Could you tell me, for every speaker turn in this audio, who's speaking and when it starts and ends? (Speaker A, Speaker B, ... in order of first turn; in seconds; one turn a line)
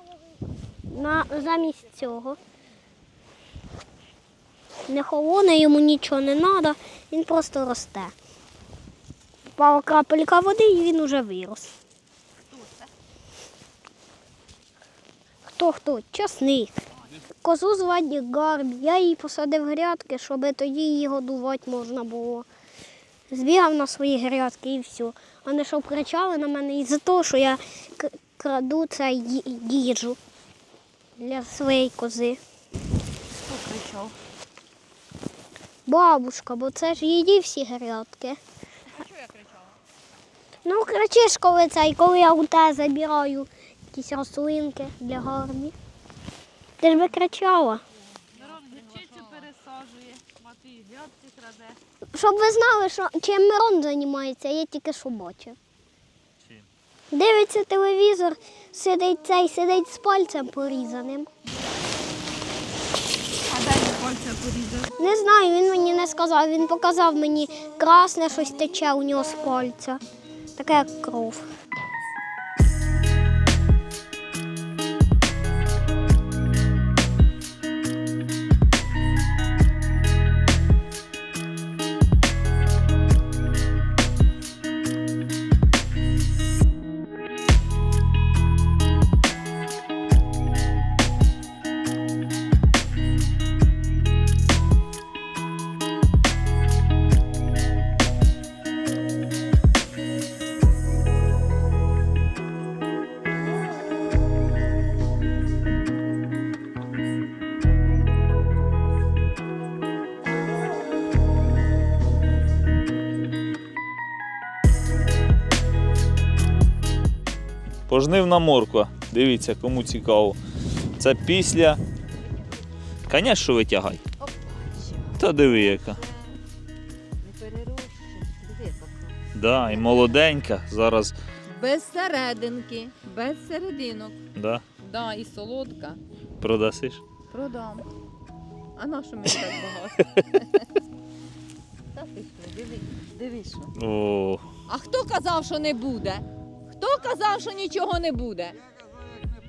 Speaker A: 0.9-2.4
Speaker A: 4.9-8.1
Speaker A: 9.6-11.8
Speaker A: 15.5-16.8
Speaker A: 17.4-22.5
Speaker A: 23.3-30.2
Speaker A: 31.2-32.4
Speaker B: 33.5-34.1
Speaker C: 33.5-34.1
Speaker A: 35.9-38.4
Speaker C: 38.9-39.7
Speaker A: 40.6-45.8
Speaker A: 46.8-47.8
Speaker C: 48.3-49.5
Speaker B: 48.3-51.8
Speaker A: 52.1-55.6
Speaker A: 57.1-61.3
Speaker B: 63.5-64.9
Speaker A: 65.0-70.0
Speaker A: 70.6-71.5
Speaker D: 117.9-120.4
Speaker D: 121.0-121.8
Speaker D: 123.1-124.0
Speaker C: 124.2-126.1
Speaker D: 125.2-126.0
Speaker C: 127.2-129.2
Speaker D: 129.3-131.1
Speaker C: 131.5-134.2
Speaker D: 134.4-134.6
Speaker C: 134.8-136.0
Speaker D: 136.4-137.0
Speaker C: 137.3-137.9
Speaker C: 138.8-140.8
Speaker C: 141.9-143.7
Speaker D: 143.8-144.4
Speaker C: 144.7-148.6